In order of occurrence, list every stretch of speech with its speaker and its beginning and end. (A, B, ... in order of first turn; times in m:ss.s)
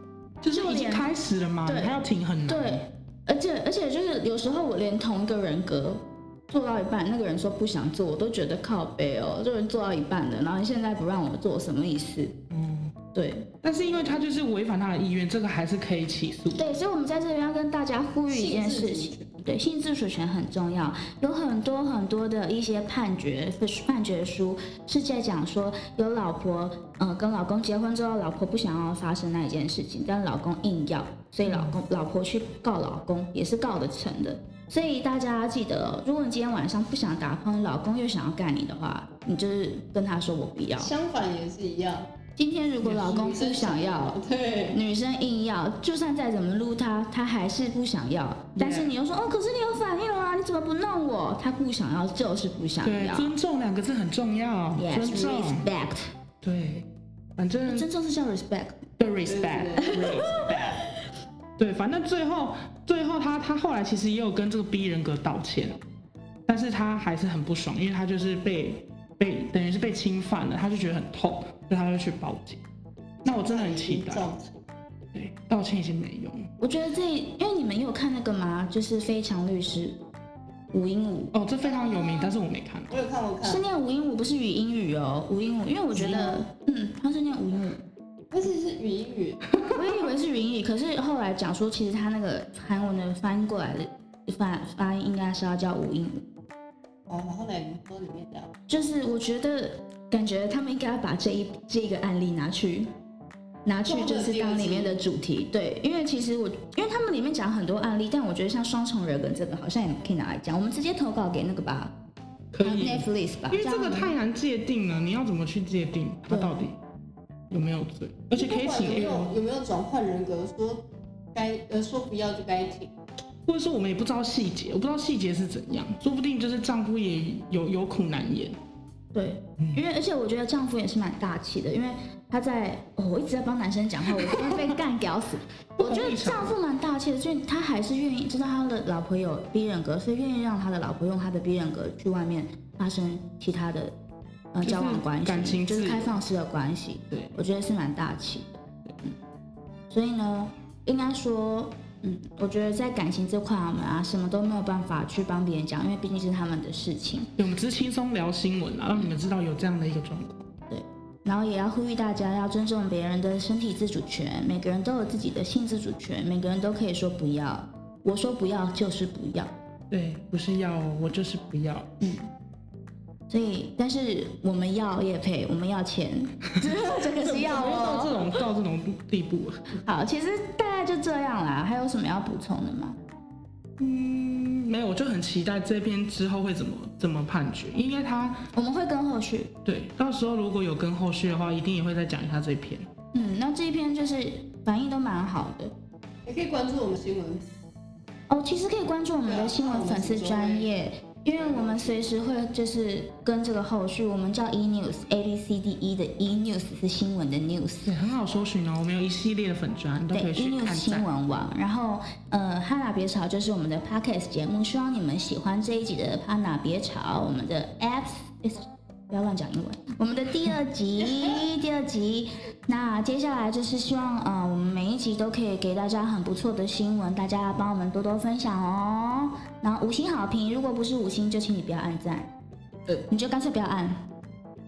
0:00.4-0:02.8 A
0:00.5-0:01.1 B
0:01.6-0:01.9 B
0:02.4-0:12.3 B
0:12.5-0:12.9 A
0:13.1-0:13.4 B
0:13.6-0:16.7 A
0:16.5-0:40.9 B
0:18.3-0:19.3 C
0:31.4-0:31.8 A
0:40.8-0:42.1 C
0:42.3-0:44.2 B
0:42.9-0:44.8 C
0:44.7-0:53.3 B
0:48.6-0:48.9 A
0:52.8-0:55.6 A
0:54.8-0:56.1 B
0:56.4-0:57.9 A
0:57.7-0:58.9 B
0:59.0-1:00.8 A
0:59.2-1:00.0 C
0:59.9-1:00.7 B
1:01.6-1:05.8 A
1:06.5-1:12.6 A
1:13.2-1:14.5 C
1:13.2-1:14.2 A
1:15.1-1:16.5 A
1:16.6-1:20.0 B
1:20.7-1:21.3 B
1:21.3-1:23.0 A
1:21.7-1:22.3 C
1:22.9-1:23.6 C
1:23.4-1:27.8 B
1:26.0-1:26.4 C
1:28.3-1:29.4 C
1:29.7-1:36.2 B
1:37.1-1:38.5 C
1:38.7-1:42.9 B
1:43.6-1:51.9 B
1:43.8-1:45.0 C
1:52.5-1:56.8 A
1:52.6-1:54.1 B
1:56.3-1:56.6 B
1:57.5-1:59.3 A
1:58.3-2:00.8 C
2:01.3-2:02.9 C
2:03.4-2:08.6 A
2:09.1-2:23.9 B
2:09.6-2:09.8 A
2:15.8-2:16.6 A
2:24.5-2:29.1 B
2:24.6-2:26.2 A
2:29.9-2:37.3 B
2:37.4-2:40.4 A
2:40.7-2:49.5 B
2:49.9-2:51.8 A
2:52.0-2:52.3 B
2:53.3-2:58.4 B
2:57.1-2:59.6 A
2:59.8-3:03.0 B
3:03.8-3:08.4 A
3:08.5-3:09.5 B
3:09.6-3:12.9 A
3:13.1-3:15.7 B
3:16.2-3:17.4 C
3:18.3-3:27.9 B
3:19.2-3:20.7 C
3:21.4-3:22.1 C
3:27.8-3:31.1 A
3:30.1-3:52.3 B
3:53.1-3:54.0 B